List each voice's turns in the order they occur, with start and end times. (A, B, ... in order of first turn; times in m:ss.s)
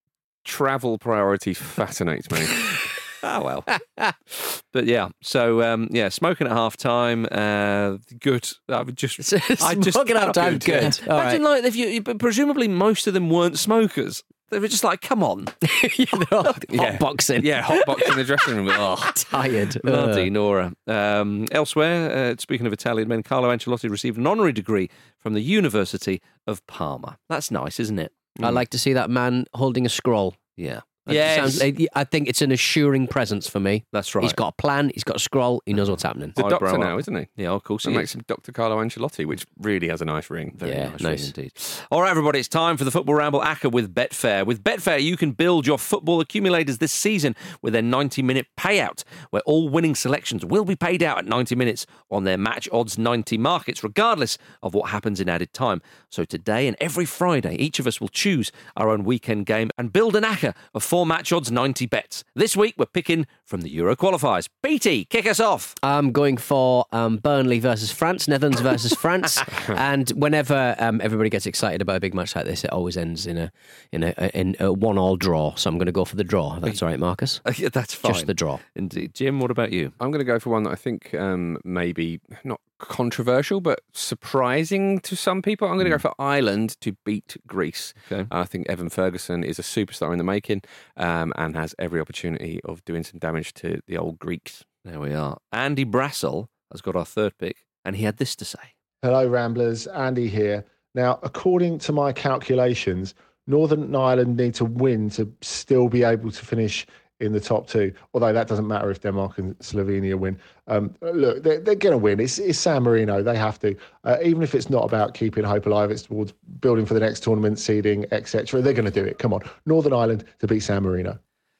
0:00.4-0:02.7 A
0:02.6-0:03.7 B
0:04.3-0:15.5 B
0:09.2-0:11.4 C
0:15.6-0:20.3 C
0:16.7-0:19.2 A
0:19.8-0:28.1 B
0:28.4-0:28.6 A
0:28.4-0:30.4 C
0:30.6-0:31.6 B
0:31.1-0:36.4 C
0:33.9-0:34.4 B
0:36.3-0:37.3 A
0:36.4-0:38.1 B
0:37.8-0:40.6 A
0:40.6-1:05.8 B
0:40.6-0:41.3 C
1:05.8-1:17.4 C
1:17.4-1:19.9 B
1:18.0-1:18.6 C
1:20.0-1:34.6 A
1:28.0-1:28.3 B
1:34.8-1:38.7 B
1:39.0-2:01.2 D